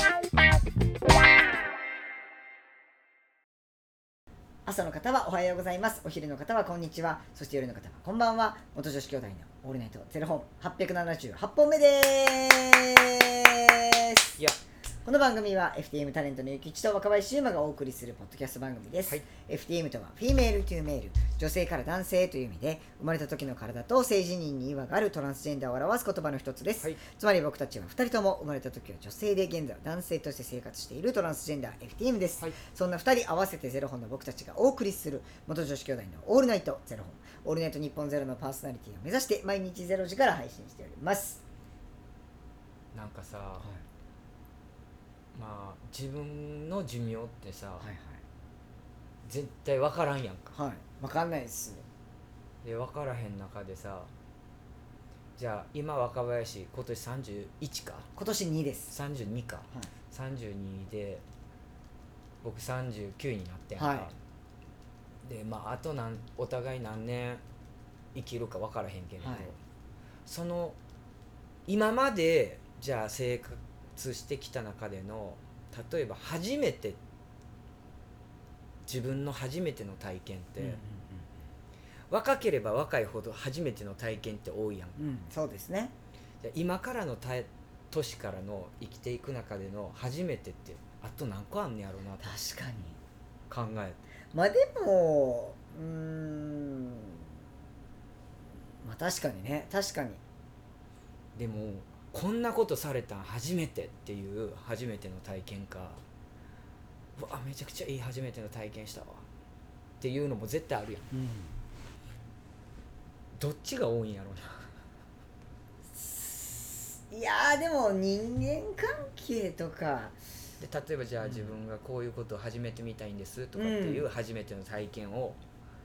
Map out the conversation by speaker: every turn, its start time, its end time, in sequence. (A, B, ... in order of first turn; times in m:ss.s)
0:04.6-0:14.4 A
0:15.0-0:41.4 A
0:42.9-0:43.7 B
0:45.3-0:47.9 B
0:47.8-0:48.2 A
0:49.2-0:50.5 B
0:50.5-0:51.8 A
0:52.6-0:54.1 B
0:55.4-0:58.1 B
0:58.2-0:58.9 A
0:58.9-1:01.2 B
1:02.4-1:04.1 B
1:03.8-1:04.1 A
1:05.2-1:07.4 B
1:08.1-1:09.6 B
1:09.2-1:09.5 A
1:10.2-1:10.8 B
1:11.7-1:17.0 B
1:18.8-1:20.8 B
1:20.6-1:21.3 A
1:22.1-1:25.1 B
1:25.0-1:25.9 A
1:26.4-1:32.4 B
1:32.2-1:33.0 A
1:33.5-1:34.0 B
1:34.3-1:37.3 A
1:38.8-1:40.2 A
1:41.3-1:46.0 B
1:47.2-1:49.2 B
1:50.0-1:51.0 B
1:51.1-1:51.5 A
1:53.4-1:54.6 B
1:55.9-2:00.1 A
2:00.6-2:05.4 B
2:01.2-2:01.5 A
2:03.6-2:04.1 A